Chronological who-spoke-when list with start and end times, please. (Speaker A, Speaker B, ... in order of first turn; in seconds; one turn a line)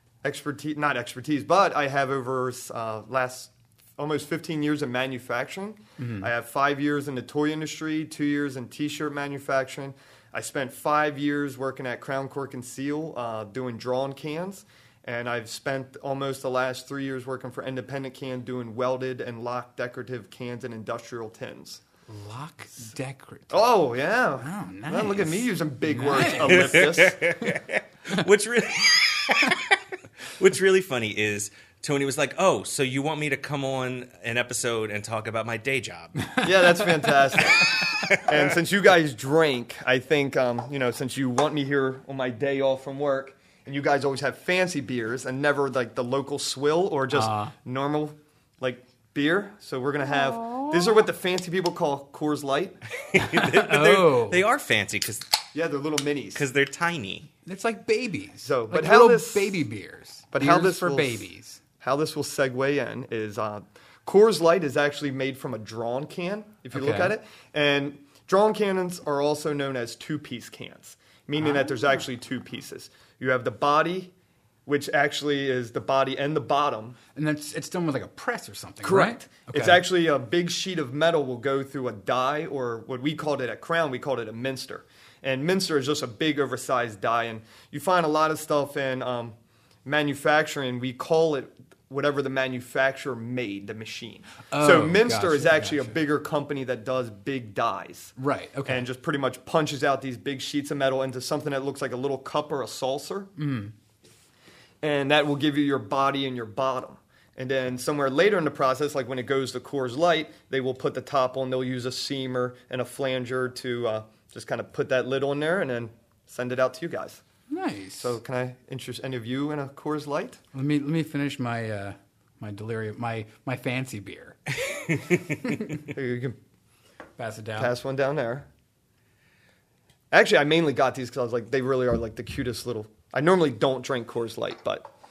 Speaker A: 0.2-21.8
Speaker B: 6.0-6.3
Speaker B: 22.1-23.7
Speaker A: 23.5-27.2
Speaker B: 24.4-26.8
Speaker C: 26.4-36.3
Speaker B: 36.2-38.0
Speaker A: 36.4-52.8
Speaker C: 38.0-38.4
Speaker B: 47.1-47.5
Speaker B: 50.2-51.0
Speaker C: 53.0-55.4
Speaker B: 53.1-54.4
Speaker A: 55.5-56.4
Speaker C: 56.3-57.3
Speaker B: 57.4-61.6
Speaker A: 58.4-59.6
Speaker A: 60.3-61.3
Speaker A: 61.8-74.1
Speaker B: 66.7-67.1
Speaker B: 71.4-71.6
Speaker A: 74.7-77.0
Speaker B: 77.1-79.8
Speaker A: 78.8-103.3
Speaker B: 94.5-96.0
Speaker B: 98.2-98.8
Speaker B: 103.4-103.7
Speaker A: 104.8-117.2
Speaker B: 117.5-118.2
Speaker A: 118.0-120.4
Speaker B: 120.5-124.4
Speaker C: 124.9-125.3
Speaker B: 125.4-125.8
Speaker A: 125.9-126.4
Speaker B: 127.2-127.7
Speaker A: 127.6-128.5
Speaker A: 130.1-134.9